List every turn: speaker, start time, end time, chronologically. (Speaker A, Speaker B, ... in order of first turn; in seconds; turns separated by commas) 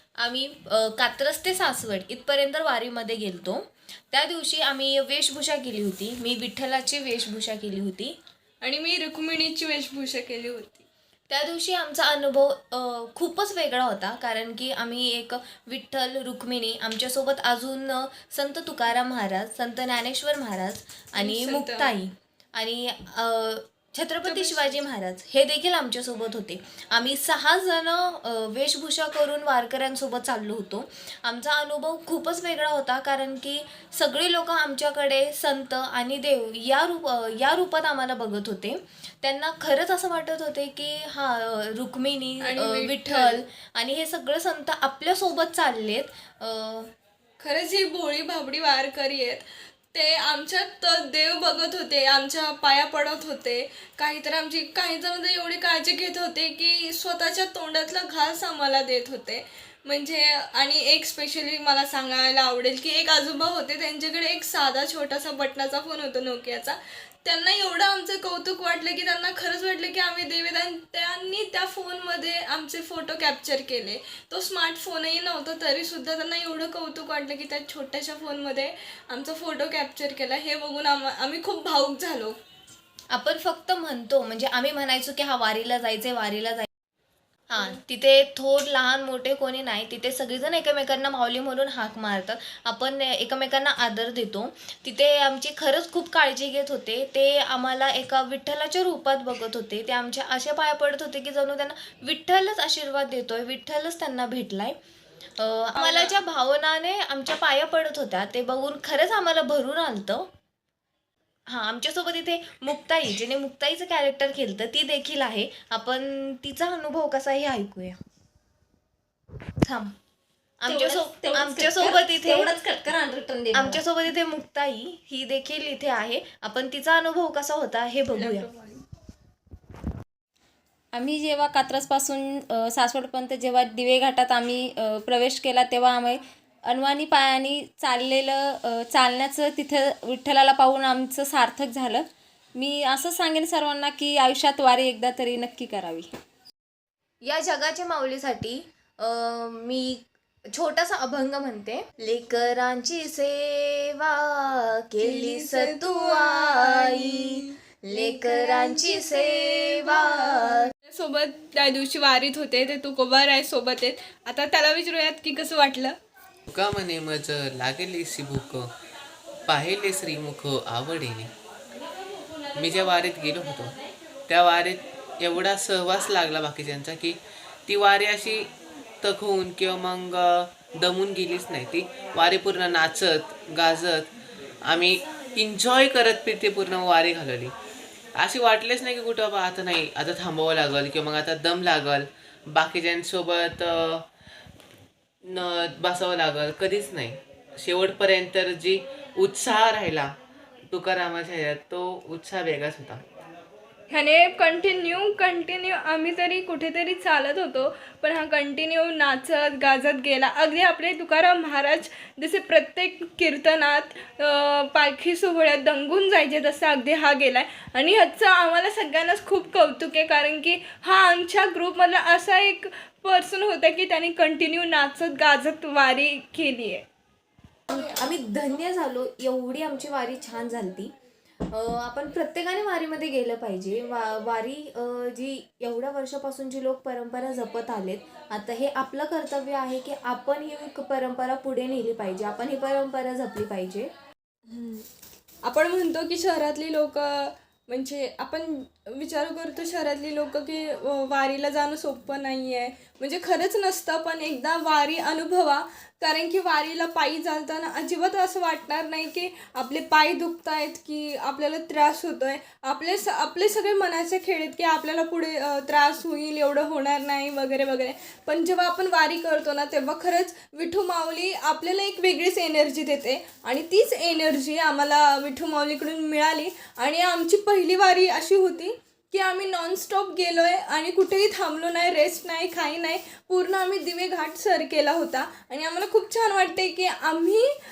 Speaker A: 0.2-8.2, Speaker B: 8.6-10.8, Speaker A: 11.3-46.9, Speaker B: 21.1-21.9, Speaker B: 24.2-24.9, Speaker B: 42.4-43.4, Speaker B: 47.4-82.4, Speaker A: 83.1-86.7, Speaker A: 87.5-104.8, Speaker A: 105.4-110.3, Speaker B: 105.7-106.1, Speaker A: 111.5-118.0, Speaker A: 119.6-119.9, Speaker A: 120.6-122.5, Speaker C: 120.6-123.8, Speaker A: 123.5-128.5, Speaker B: 128.2-128.8, Speaker C: 130.9-146.1, Speaker A: 147.2-160.7, Speaker B: 155.0-165.9, Speaker D: 166.5-168.7, Speaker D: 169.5-171.3, Speaker D: 172.5-173.8, Speaker D: 174.3-178.5, Speaker D: 179.0-184.1, Speaker D: 184.6-187.5, Speaker D: 188.2-194.0, Speaker D: 195.3-200.1, Speaker D: 200.7-203.0, Speaker B: 203.9-226.8, Speaker A: 227.7-230.9, Speaker A: 231.5-243.9, Speaker B: 244.5-244.8, Speaker B: 245.4-287.5